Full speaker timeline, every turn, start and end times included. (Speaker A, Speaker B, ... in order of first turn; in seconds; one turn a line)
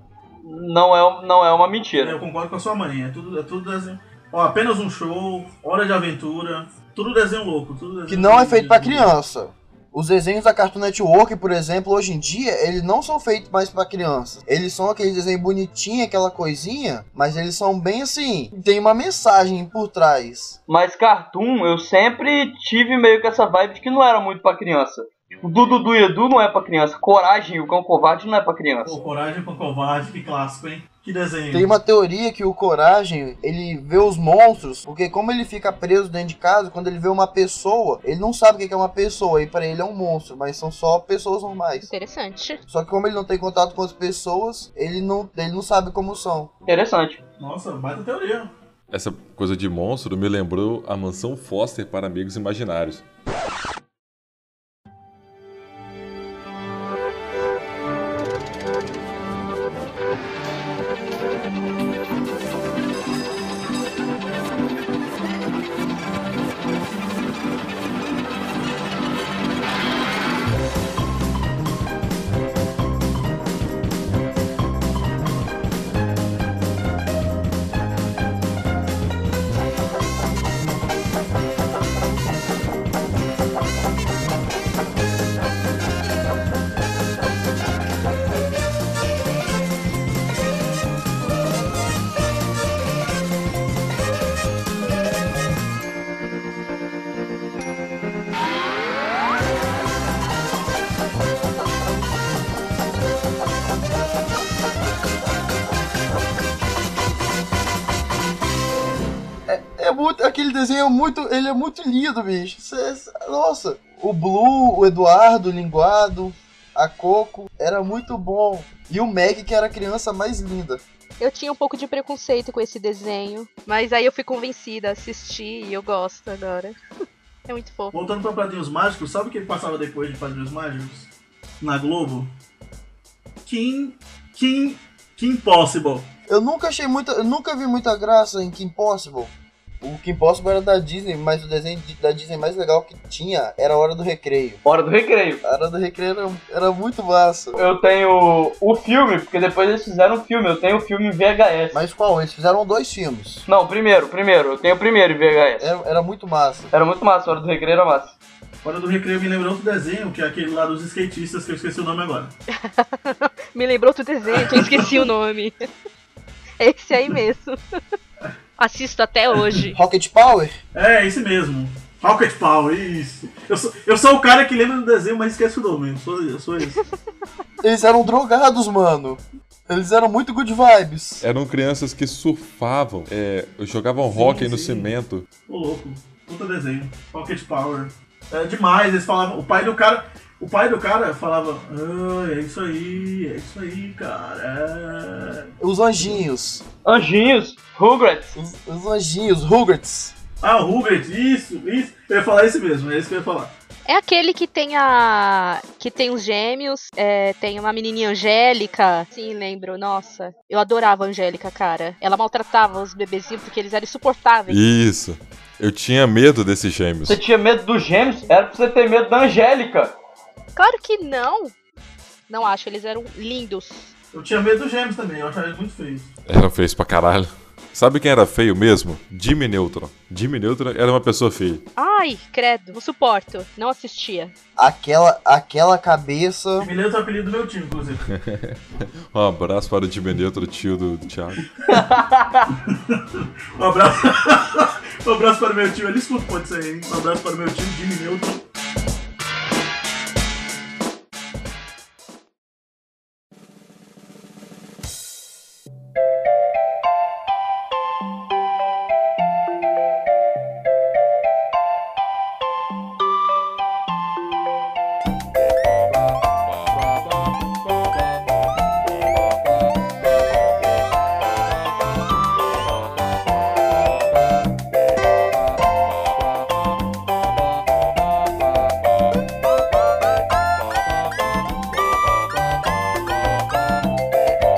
Speaker A: 0.4-2.2
Speaker B: 2.0-9.1
Speaker C: 8.1-20.6
Speaker A: 20.7-29.0
Speaker B: 28.9-31.7
Speaker C: 31.5-41.9
Speaker D: 41.8-42.6
Speaker C: 42.7-46.5
Speaker A: 46.7-47.2
Speaker B: 47.4-48.5
Speaker E: 48.9-53.0
Speaker C: 109.5-120.8
Speaker D: 121.2-126.8
Speaker D: 127.5-128.0
Speaker B: 127.9-131.1
Speaker B: 131.6-132.3
Speaker B: 133.4-136.1
Speaker C: 136.3-144.6
Speaker A: 144.7-145.4
Speaker C: 145.4-147.6
Speaker A: 147.6-151.8
Speaker C: 151.7-153.5
Speaker A: 153.5-155.7
Speaker C: 155.6-156.7
Speaker A: 156.7-158.2
Speaker B: 158.6-162.3
Speaker D: 162.5-165.6
Speaker B: 164.3-165.1
Speaker D: 166.6-167.6
Speaker D: 168.6-169.8
Speaker C: 169.7-170.6
Speaker B: 170.7-176.8
Speaker C: 177.6-181.2
Speaker E: 181.2-185.3
Speaker B: 184.1-184.9
Speaker B: 185.5-195.5
Speaker C: 195.6-196.6
Speaker A: 196.8-198.4
Speaker C: 198.4-200.1
Speaker B: 200.4-203.5
Speaker D: 203.9-214.6
Speaker E: 214.5-217.2
Speaker A: 217.1-219.9
Speaker D: 220.6-221.5
Speaker D: 222.3-223.9
Speaker B: 224.1-226.1
Speaker E: 226.3-231.7
Speaker D: 231.8-234.3
Speaker C: 234.6-236.7
Speaker B: 236.6-238.0
Speaker E: 238.1-241.4
Speaker A: 241.7-242.5
Speaker B: 242.7-248.4